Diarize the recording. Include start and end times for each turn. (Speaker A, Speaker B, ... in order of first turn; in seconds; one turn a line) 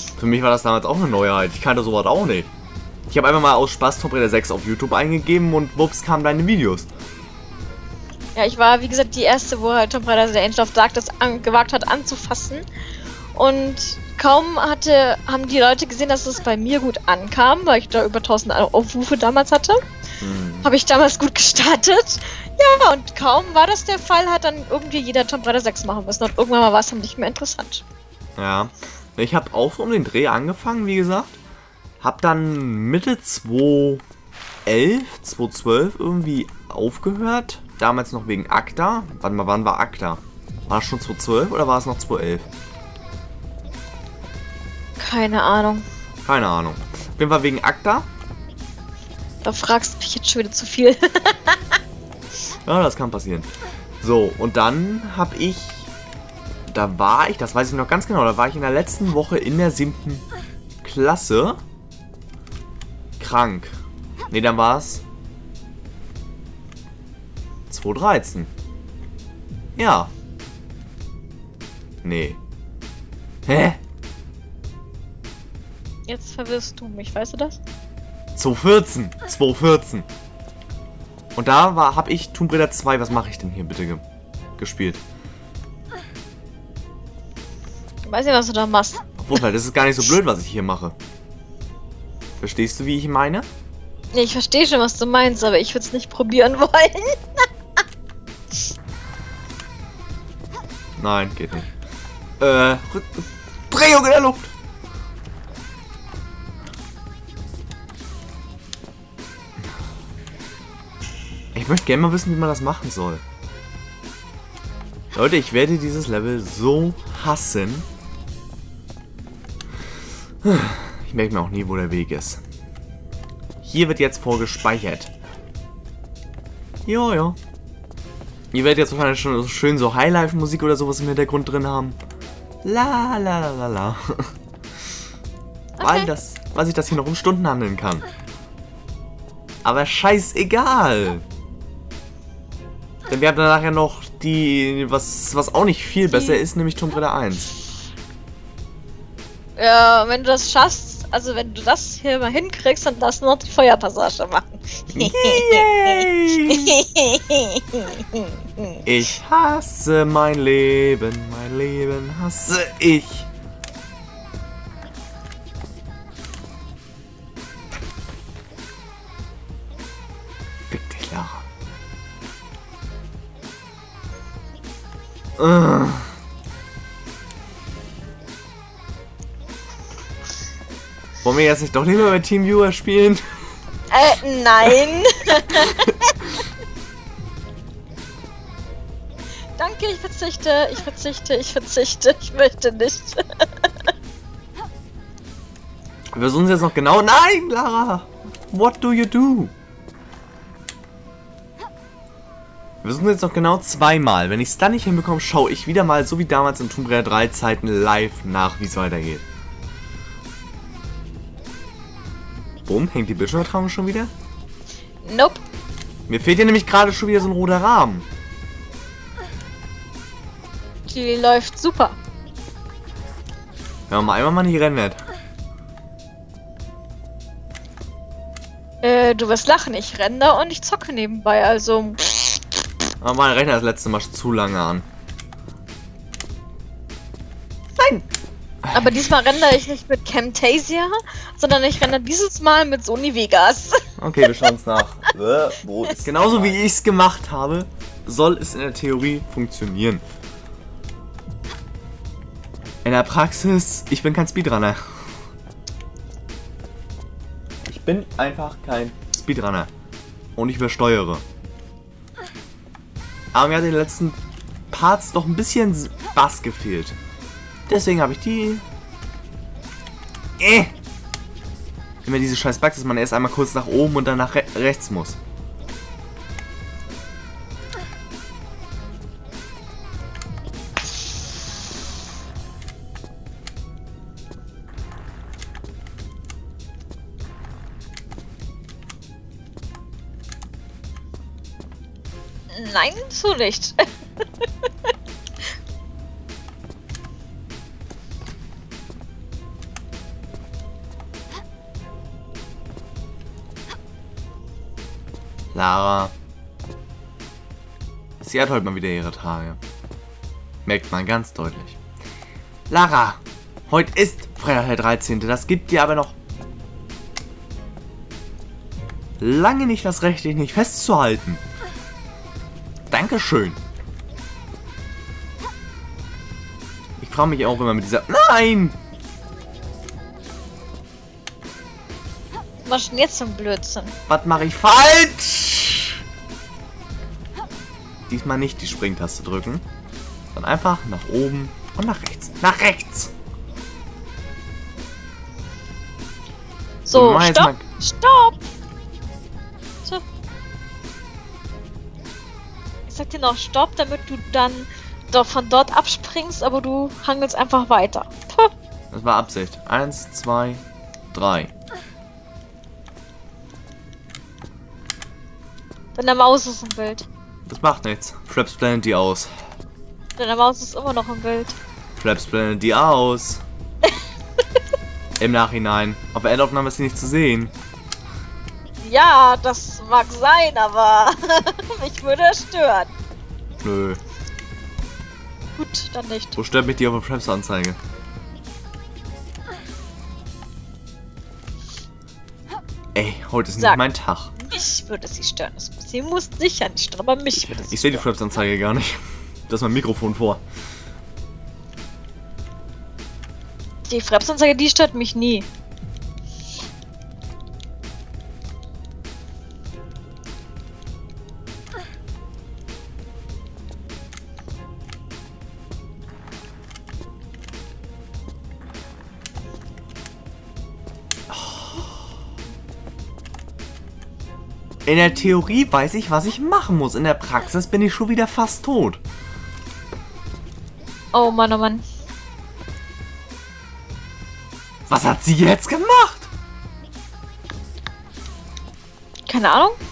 Speaker A: 0.2-2.5
Speaker A: 3.1-6.9
Speaker B: 8.3-12.6
Speaker B: 13.3-19.8
Speaker A: 20.2-20.7
Speaker B: 20.6-27.8
Speaker A: 28.4-31.4
Speaker A: 32.0-34.0
Speaker A: 34.6-42.5
Speaker B: 45.0-45.8
Speaker A: 46.2-48.1
Speaker B: 49.4-51.6
Speaker A: 52.6-53.5
Speaker A: 54.0-55.9
Speaker A: 56.7-60.2
Speaker A: 60.8-61.6
Speaker A: 63.2-63.7
Speaker A: 64.3-65.0
Speaker A: 67.7-68.5
Speaker A: 69.8-70.1
Speaker A: 72.0-72.4
Speaker A: 73.5-73.8
Speaker B: 76.1-77.6
Speaker A: 78.3-80.1
Speaker A: 81.3-84.0
Speaker A: 84.6-85.0
Speaker B: 88.0-89.0
Speaker A: 89.2-90.9
Speaker A: 92.4-93.5
Speaker B: 94.1-97.4
Speaker A: 101.0-101.7
Speaker A: 102.4-104.5
Speaker A: 111.5-113.2
Speaker A: 115.1-117.9
Speaker A: 120.4-122.4
Speaker A: 123.6-125.1
Speaker A: 126.8-127.4
Speaker A: 128.5-132.0
Speaker A: 132.6-134.3
Speaker B: 135.8-136.1
Speaker A: 135.8-138.1
Speaker A: 139.6-141.2
Speaker A: 143.1-147.5
Speaker B: 146.1-146.4
Speaker B: 149.6-158.8
Speaker A: 154.9-156.8
Speaker A: 158.8-163.3
Speaker A: 170.7-171.4
Speaker A: 175.4-176.2
Speaker A: 181.2-183.2
Speaker B: 183.9-185.9
Speaker A: 185.5-186.4
Speaker B: 189.6-193.7
Speaker A: 196.1-199.5
Speaker A: 202.8-209.2
Speaker A: 212.7-214.1
Speaker B: 215.0-215.4
Speaker A: 216.1-218.1
Speaker B: 220.9-222.0
Speaker A: 223.9-225.0
Speaker B: 228.8-232.6
Speaker A: 233.0-234.8
Speaker A: 237.8-238.1
Speaker A: 238.6-239.1
Speaker B: 238.7-244.4
Speaker A: 244.0-250.0
Speaker B: 245.8-246.1
Speaker A: 252.8-255.1
Speaker A: 257.6-259.7
Speaker A: 260.4-261.2
Speaker A: 263.3-264.2
Speaker A: 264.7-267.0
Speaker A: 267.7-268.6
Speaker A: 270.4-270.7
Speaker A: 272.0-275.2
Speaker B: 292.5-293.8
Speaker A: 305.5-306.1
Speaker A: 308.2-309.6
Speaker A: 310.6-311.8
Speaker A: 312.7-316.1
Speaker A: 319.2-321.4
Speaker A: 322.9-323.6
Speaker A: 327.0-328.8
Speaker B: 332.6-333.9
Speaker A: 334.1-336.0
Speaker A: 338.1-339.6
Speaker A: 340.3-343.1
Speaker B: 346.9-348.5
Speaker A: 346.9-347.6
Speaker B: 352.9-358.5
Speaker A: 358.9-361.5
Speaker B: 365.9-367.1
Speaker A: 367.4-369.3
Speaker B: 370.2-371.6
Speaker A: 372.0-373.4
Speaker A: 375.2-377.5
Speaker B: 378.8-382.9
Speaker A: 383.6-384.0
Speaker B: 385.6-386.4
Speaker A: 386.4-387.8
Speaker A: 392.9-394.3
Speaker B: 394.4-398.0
Speaker A: 397.3-400.4
Speaker B: 403.9-405.5
Speaker A: 421.3-422.1
Speaker A: 424.9-429.0
Speaker B: 431.1-431.8
Speaker A: 434.9-436.3
Speaker B: 439.3-439.8